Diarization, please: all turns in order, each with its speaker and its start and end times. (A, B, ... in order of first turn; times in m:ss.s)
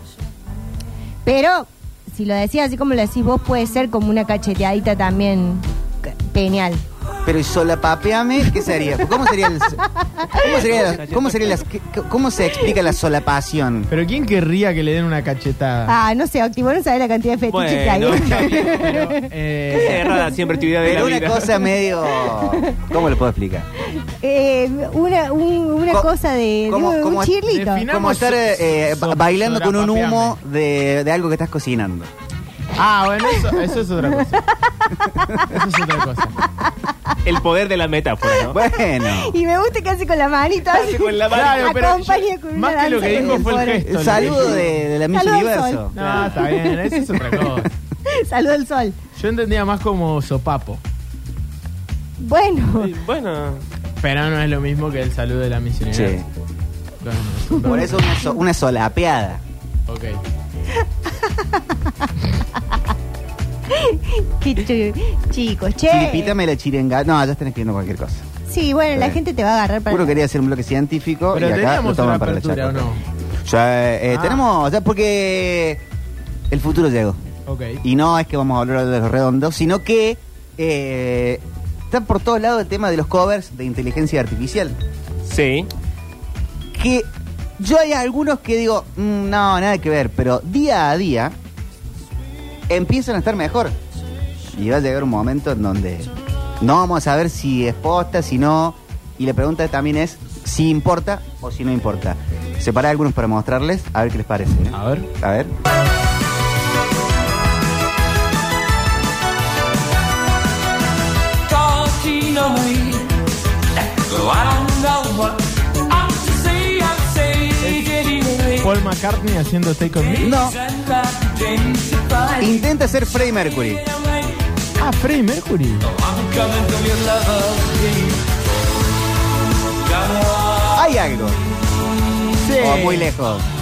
0:01.2-0:06.8 A
0:07.2-0:09.8 B
0:08.6-0:10.4 A
0:10.4-0:13.9 B
0:10.4-0:11.6 C
0:13.9-0:16.0 D
0:15.9-0:20.3 A
0:17.5-0:18.8 C
0:18.2-0:20.0 D
0:19.7-0:21.5 C
0:20.8-0:23.7 B
0:21.7-0:22.9 A
0:23.8-0:27.8 A
0:26.7-0:27.4 B
0:27.4-0:30.4 D
0:27.9-0:32.1 B
0:32.8-0:34.4 D
0:34.0-0:35.6 A
0:35.4-0:36.4 D
0:36.4-0:37.1 A
0:37.2-0:38.6 C
0:38.4-0:39.3 B
0:39.0-0:44.6 A
0:40.7-0:41.9 C
0:41.3-0:44.8 D
0:43.0-0:45.9 B
0:45.1-0:47.4 A
0:45.9-0:47.7 D
0:46.0-0:46.4 C
0:48.1-0:49.0 A
0:49.2-0:50.8 D
0:52.2-0:52.9 A
0:52.8-0:53.6 C
0:54.0-0:56.2 D
0:55.9-0:56.2 B
0:57.0-0:58.0 D
0:57.5-0:59.4 B
0:59.9-1:00.2 D
1:01.3-1:01.6 A
1:03.7-1:06.3 A
1:05.9-1:08.2 B
1:08.5-1:10.2 A
1:08.9-1:09.2 B
1:09.9-1:12.9 B
1:11.3-1:13.0 D
1:13.4-1:15.8 B
1:14.1-1:14.4 D
1:16.5-1:17.2 B
1:17.5-1:17.8 D
1:17.8-1:24.7 B
1:25.2-1:25.7 C
1:26.7-1:27.1 B
1:27.6-1:31.3 B
1:32.7-1:33.7 B
1:34.5-1:45.5 B
1:44.7-1:45.1 D
1:51.7-1:53.0 E
1:54.5-1:55.3 E
1:56.2-1:57.2 E
1:57.4-2:00.4 D
2:00.2-2:00.6 B
2:02.3-2:03.8 B
2:04.8-2:06.0 D
2:07.0-2:07.5 E
2:10.6-2:11.4 B
2:12.4-2:13.1 D
2:12.6-2:13.4 B